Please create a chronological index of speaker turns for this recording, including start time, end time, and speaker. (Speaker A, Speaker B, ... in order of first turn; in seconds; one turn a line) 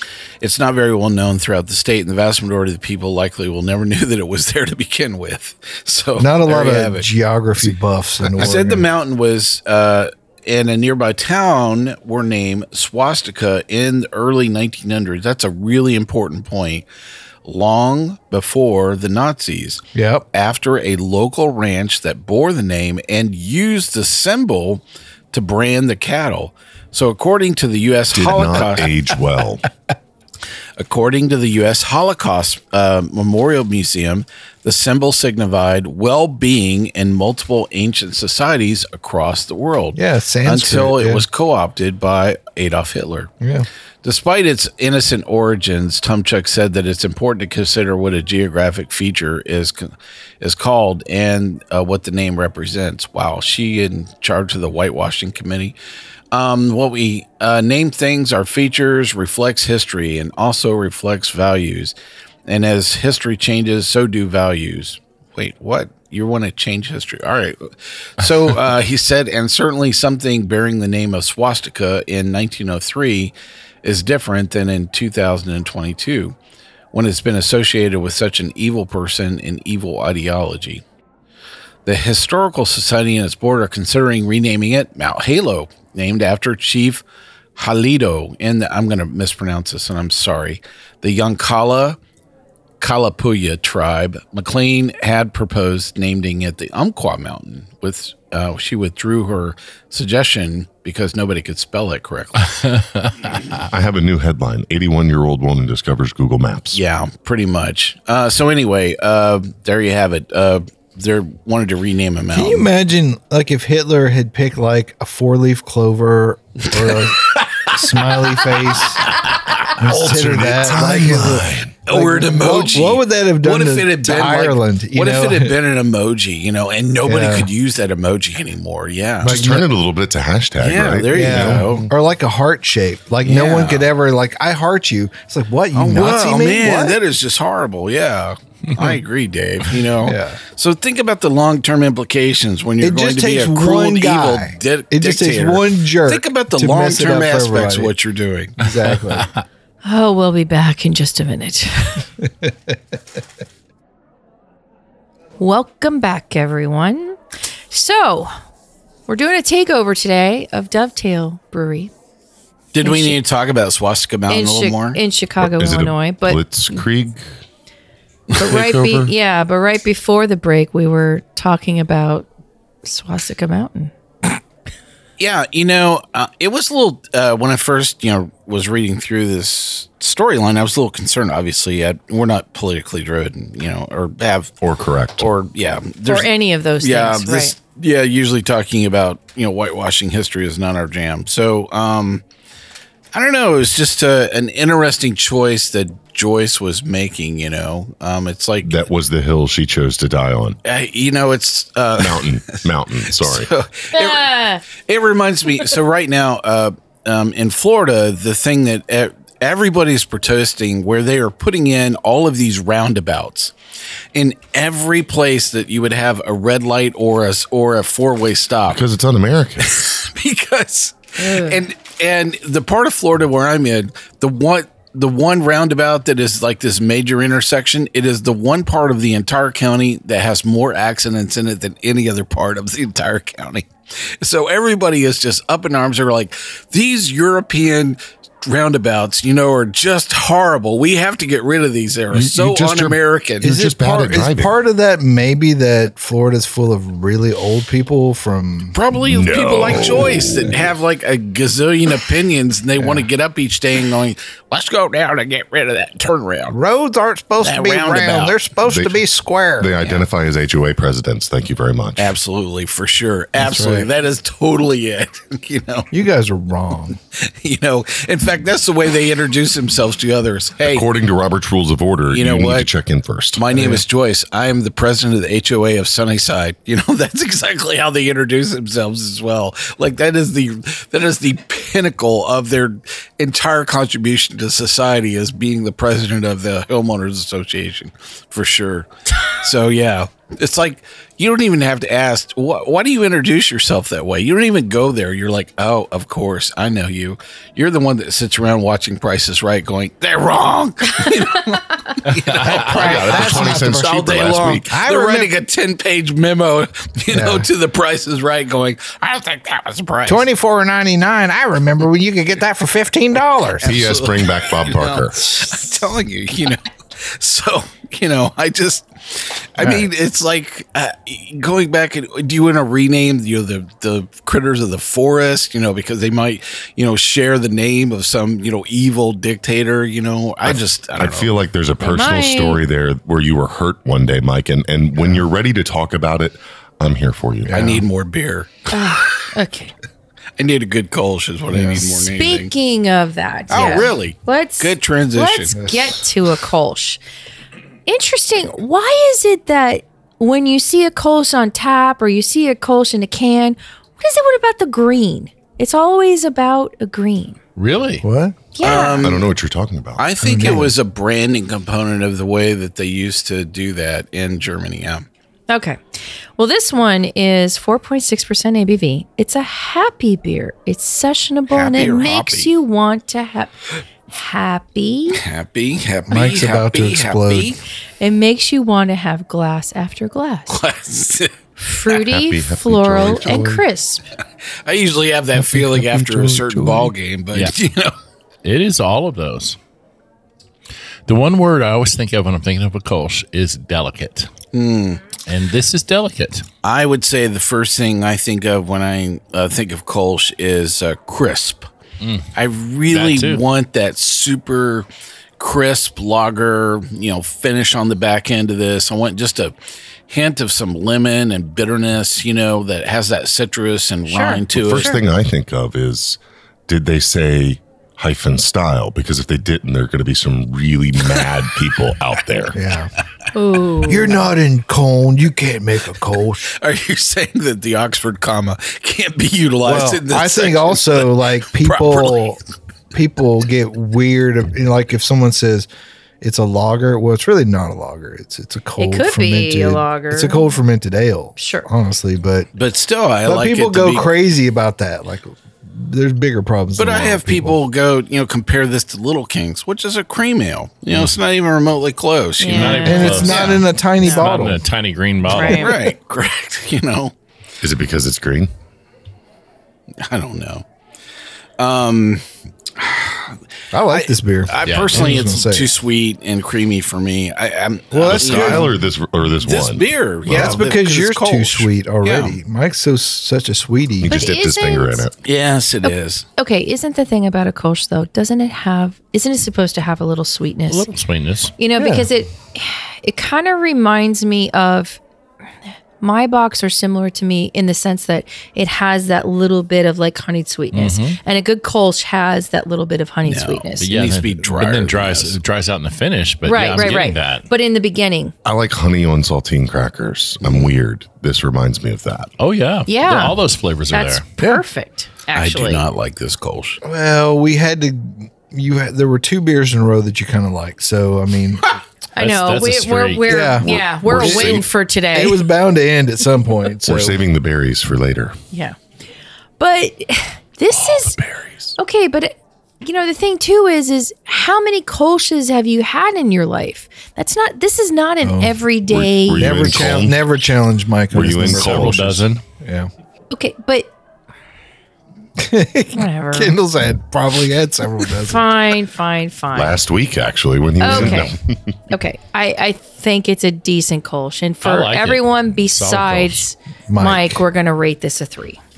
Speaker A: 0.4-7.1
Speaker B: 6.2-8.9
Speaker A: 8.2-16.9
Speaker A: 17.4-29.0
Speaker B: 19.9-20.3
Speaker C: 28.1-29.7
Speaker A: 30.8-43.3
Speaker B: 40.0-41.2
Speaker B: 43.4-43.7
Speaker A: 44.0-55.8
Speaker A: 56.3-62.0
Speaker A: 62.5-76.3
Speaker A: 76.9-80.8
Speaker A: 81.9-87.0
Speaker A: 87.5-92.0
Speaker A: 92.8-102.5
Speaker D: 102.5-103.6
Speaker C: 103.7-106.8
Speaker A: 106.7-112.7
Speaker B: 112.3-119.1
Speaker A: 116.8-117.8
Speaker A: 118.4-119.8
Speaker B: 119.8-125.6
Speaker C: 119.8-121.8
Speaker A: 121.9-129.5
Speaker B: 127.0-127.5
Speaker C: 129.2-131.8
Speaker B: 129.2-129.7
Speaker A: 130.6-131.9
Speaker B: 131.1-137.0
Speaker A: 133.2-133.9
Speaker A: 135.7-148.6
Speaker B: 140.0-140.4
Speaker B: 142.8-147.9
Speaker B: 148.6-149.3
Speaker D: 149.1-149.4
Speaker E: 149.8-152.1
Speaker B: 152.4-152.8
Speaker E: 155.4-157.2
Speaker E: 157.7-158.3
Speaker E: 159.1-161.9
Speaker A: 162.7-165.0
Speaker E: 162.8-163.2
Speaker E: 164.3-166.8
Speaker C: 165.4-167.2
Speaker E: 168.3-172.3
Speaker C: 168.4-169.1
Speaker E: 172.8-173.9
Speaker A: 175.2-184.5
Speaker C: 184.6-185.3
Speaker A: 185.2-192.2
Speaker E: 186.1-187.6
Speaker A: 193.1-198.8
Speaker C: 198.6-200.6
Speaker A: 200.7-213.5
Speaker C: 202.0-203.5
Speaker E: 203.9-204.6
Speaker A: 214.1-218.8
Speaker C: 218.7-220.0
Speaker A: 219.7-233.7
Speaker E: 221.2-221.6
Speaker A: 234.2-243.5
Speaker C: 242.1-244.5
Speaker B: 243.4-248.8
Speaker A: 248.7-256.6
Speaker C: 249.0-250.7
Speaker B: 252.8-253.1
Speaker B: 256.5-259.7
Speaker A: 257.4-258.4
Speaker C: 258.7-259.0
Speaker C: 259.6-262.2
Speaker A: 262.0-265.9
Speaker B: 263.4-263.9
Speaker B: 265.9-267.0
Speaker A: 267.2-270.9
Speaker C: 270.6-273.5
Speaker A: 272.1-272.7
Speaker A: 273.4-310.2
Speaker B: 273.5-273.8
Speaker D: 302.1-302.6
Speaker C: 302.4-304.7
Speaker B: 302.7-305.3
Speaker B: 307.1-307.5
Speaker B: 310.1-313.8
Speaker A: 313.6-331.3
Speaker C: 313.6-315.3
Speaker B: 315.2-315.6
Speaker B: 319.6-319.9
Speaker C: 330.4-337.7
Speaker E: 331.8-332.6
Speaker B: 335.0-335.2
Speaker B: 337.4-337.9
Speaker A: 337.5-338.7
Speaker E: 338.7-339.7
Speaker A: 340.4-342.5
Speaker B: 341.5-341.9
Speaker E: 342.0-347.0
Speaker A: 343.5-345.6
Speaker B: 345.6-346.0
Speaker E: 347.9-357.4
Speaker D: 357.6-358.0
Speaker B: 358.0-358.4
Speaker E: 358.5-359.1
Speaker A: 358.6-359.3
Speaker C: 358.6-360.6
Speaker A: 360.0-365.1
Speaker B: 360.2-360.8
Speaker E: 365.5-365.8
Speaker E: 366.4-375.2
Speaker A: 371.5-372.5
Speaker A: 375.1-377.6
Speaker B: 376.1-377.6
Speaker E: 378.0-380.6
Speaker A: 380.5-381.3
Speaker E: 381.6-384.0
Speaker C: 381.9-383.6
Speaker B: 383.1-383.6
Speaker A: 384.7-387.9
Speaker C: 385.5-386.8
Speaker B: 385.6-386.9
Speaker D: 388.4-389.6
Speaker D: 391.1-394.3
Speaker A: 394.5-395.0
Speaker D: 395.3-396.5
Speaker A: 396.6-401.7
Speaker D: 402.0-402.3
Speaker A: 402.4-404.9
Speaker D: 402.9-403.4
Speaker A: 405.4-409.5
Speaker A: 410.1-414.9
Speaker E: 414.1-415.0
Speaker C: 414.5-422.6
Speaker B: 422.5-422.9
Speaker E: 423.3-424.2
Speaker B: 423.9-426.5
Speaker A: 426.5-432.3
Speaker B: 429.6-432.4
Speaker B: 432.9-435.7
Speaker B: 436.2-442.5
Speaker E: 438.8-440.6
Speaker E: 441.4-441.7
Speaker A: 442.6-444.1
Speaker B: 443.2-447.6
Speaker A: 446.8-453.6
Speaker E: 452.4-453.3
Speaker D: 452.5-455.6
Speaker B: 452.9-454.6
Speaker E: 455.3-455.8
Speaker A: 455.4-457.1
Speaker B: 455.5-455.9
Speaker C: 457.6-458.5
Speaker A: 460.0-460.6
Speaker A: 461.6-462.2
Speaker A: 462.8-468.8
Speaker B: 463.7-465.8
Speaker D: 464.6-465.4
Speaker B: 467.9-468.8
Speaker C: 468.0-470.7
Speaker A: 469.4-472.4
Speaker B: 470.3-474.3
Speaker C: 474.0-475.1
Speaker E: 474.1-475.1
Speaker A: 475.2-476.2
Speaker E: 475.8-480.9
Speaker D: 480.7-481.5
Speaker E: 481.6-485.0
Speaker B: 481.8-482.1
Speaker E: 486.0-493.9
Speaker D: 490.7-491.2
Speaker A: 493.2-495.4
Speaker D: 493.8-497.5
Speaker E: 496.4-498.3
Speaker C: 498.4-502.3
Speaker A: 500.4-500.7
Speaker D: 502.4-504.2
Speaker E: 502.9-503.4
Speaker E: 503.9-505.8
Speaker A: 505.4-506.8
Speaker B: 506.8-511.7
Speaker E: 512.1-515.5
Speaker D: 512.2-514.5
Speaker B: 513.3-517.2
Speaker C: 514.1-514.6
Speaker C: 516.9-518.4
Speaker E: 519.6-521.2
Speaker C: 520.7-521.7
Speaker E: 521.8-529.7
Speaker B: 528.2-528.6
Speaker C: 528.8-530.4
Speaker B: 529.3-532.9
Speaker C: 531.1-532.2
Speaker D: 531.4-532.4
Speaker E: 533.3-533.9
Speaker B: 535.4-538.5
Speaker E: 536.0-536.6
Speaker E: 538.2-539.8
Speaker C: 539.5-541.8
Speaker E: 540.8-541.4
Speaker B: 540.9-541.3
Speaker E: 541.9-548.6
Speaker D: 544.6-546.4
Speaker B: 546.9-547.4